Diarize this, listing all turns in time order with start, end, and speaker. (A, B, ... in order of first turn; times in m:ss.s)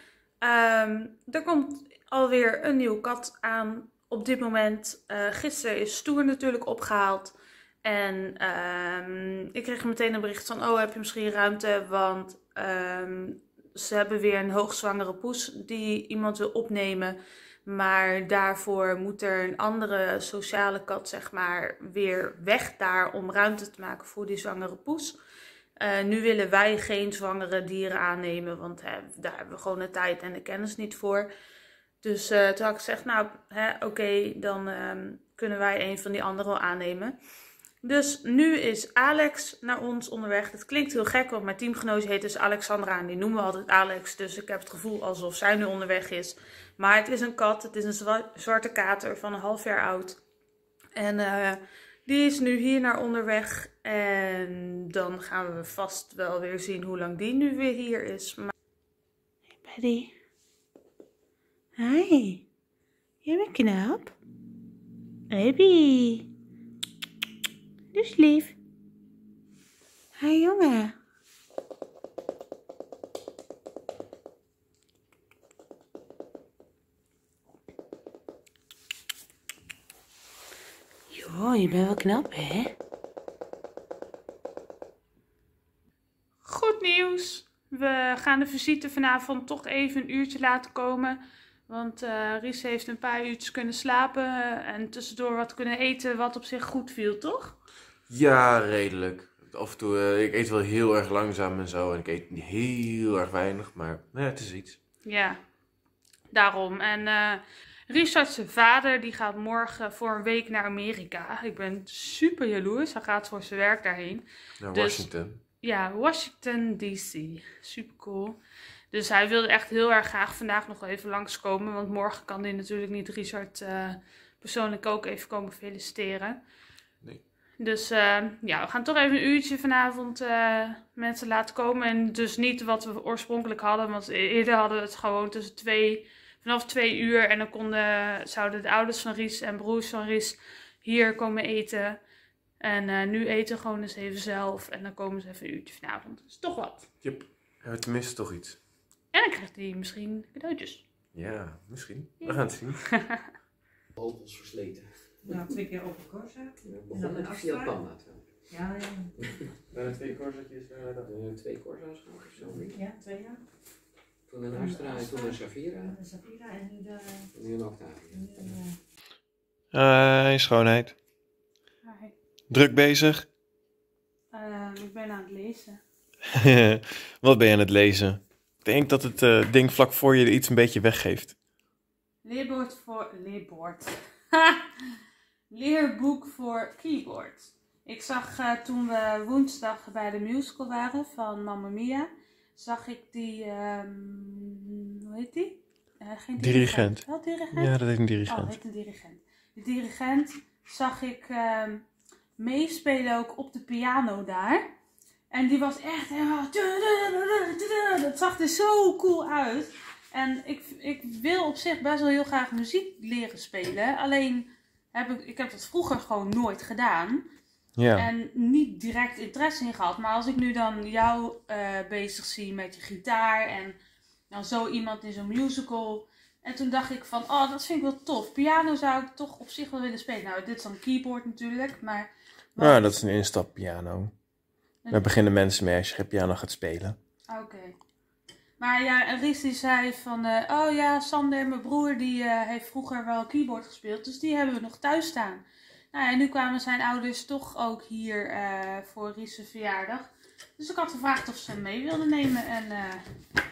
0:00.4-0:25.2 A
0:25.8-0:31.3 A
0:32.0-0:37.2 A
0:37.8-0:50.2 A
0:51.0-0:58.5 A
0:59.6-1:00.1 A
1:01.8-1:02.4 A
1:03.2-1:04.1 A
1:05.3-1:06.3 A
1:07.9-1:08.5 A
1:10.2-1:10.9 A
1:21.1-1:22.7 A
1:26.4-1:37.6 A
1:38.1-1:44.8 B
1:45.0-1:45.4 A
1:46.3-1:55.1 A
1:54.6-1:55.4 B
1:55.6-1:58.4 A
1:58.9-2:06.4 A
2:07.6-2:22.0 A
2:22.6-2:26.9 A
2:27.0-2:28.6 B
2:29.1-2:30.8 A
2:31.1-2:32.9 B
2:32.2-2:33.2 A
2:34.0-2:35.4 C
2:35.2-2:37.8 D
2:36.6-2:38.6 C
2:38.5-2:39.1 D
2:39.2-2:39.5 C
2:39.7-2:41.1 B
2:41.0-2:42.8 C
2:42.7-2:43.4 D
2:44.3-2:46.0 C
2:44.5-2:47.3 D
2:47.3-2:48.6 C
2:48.1-2:48.8 D
2:49.7-2:50.9 B
2:51.8-2:52.1 A
2:52.5-2:53.3 B
2:54.3-2:55.8 A
2:56.3-3:01.3 B
3:02.2-3:04.8 A
3:05.5-3:17.7 A
3:16.4-3:18.6 B
3:18.2-3:21.8 A
3:22.4-3:24.6 A
3:25.3-3:37.2 A
3:37.8-3:38.1 B
3:37.9-3:43.8 A
3:44.3-3:53.0 A
3:52.6-3:54.1 B
3:54.8-3:55.1 A
3:54.9-3:57.0 B
3:57.3-3:57.7 A
3:58.6-4:13.0 A